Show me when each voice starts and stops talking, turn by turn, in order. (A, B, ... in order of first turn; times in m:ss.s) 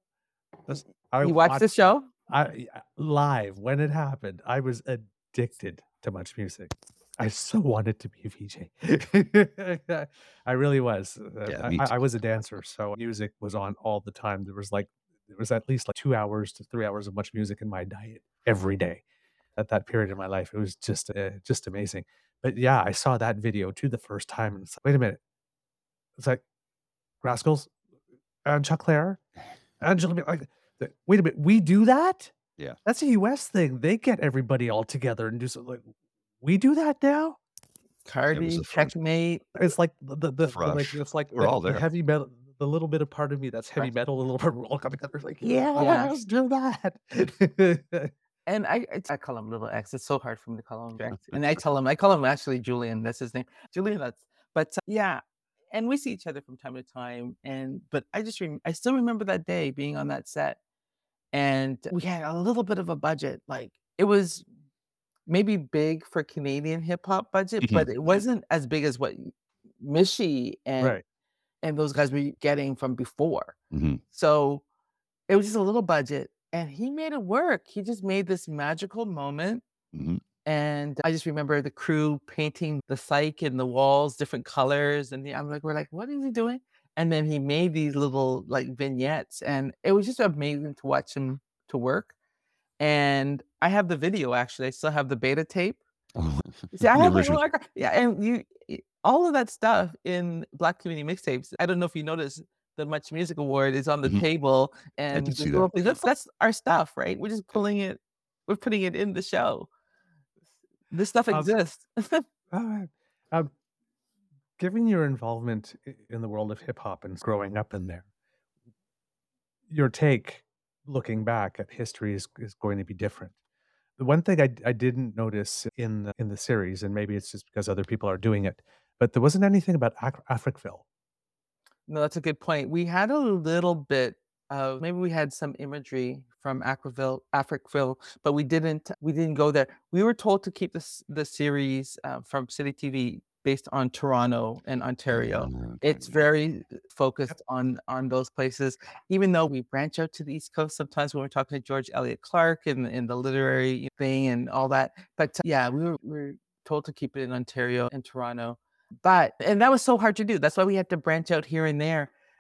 0:00.7-0:19.0 A
0:01.2-0:02.1 B
0:11.5-0:12.0 C
0:19.6-0:25.2 A
0:27.2-0:27.7 A
0:28.5-0:29.2 A
0:29.8-0:32.3 A
0:32.8-0:35.9 A
0:36.4-0:37.4 A
0:38.0-0:39.4 B
0:38.3-0:39.0 C
0:39.6-0:48.1 A
0:40.5-0:41.8 C
0:45.7-0:46.1 B
0:48.5-1:00.6 B
0:51.1-0:51.4 C
1:01.3-1:04.4 B
1:05.3-1:11.0 B
1:07.6-1:08.2 C
1:11.6-1:13.6 B
1:13.7-1:14.0 C
1:14.1-1:14.6 B
1:15.3-1:19.6 B
1:19.9-1:20.2 C
1:20.4-1:32.1 B
1:32.8-1:35.8 B
1:36.2-1:37.4 C
1:36.8-1:49.7 B
1:45.1-1:45.7 C
1:50.9-1:52.2 B
1:52.5-1:53.5 A
1:54.6-1:58.1 A
1:59.7-2:03.3 A
2:04.0-2:10.8 A
2:11.9-2:42.1 B
2:25.1-2:26.2 C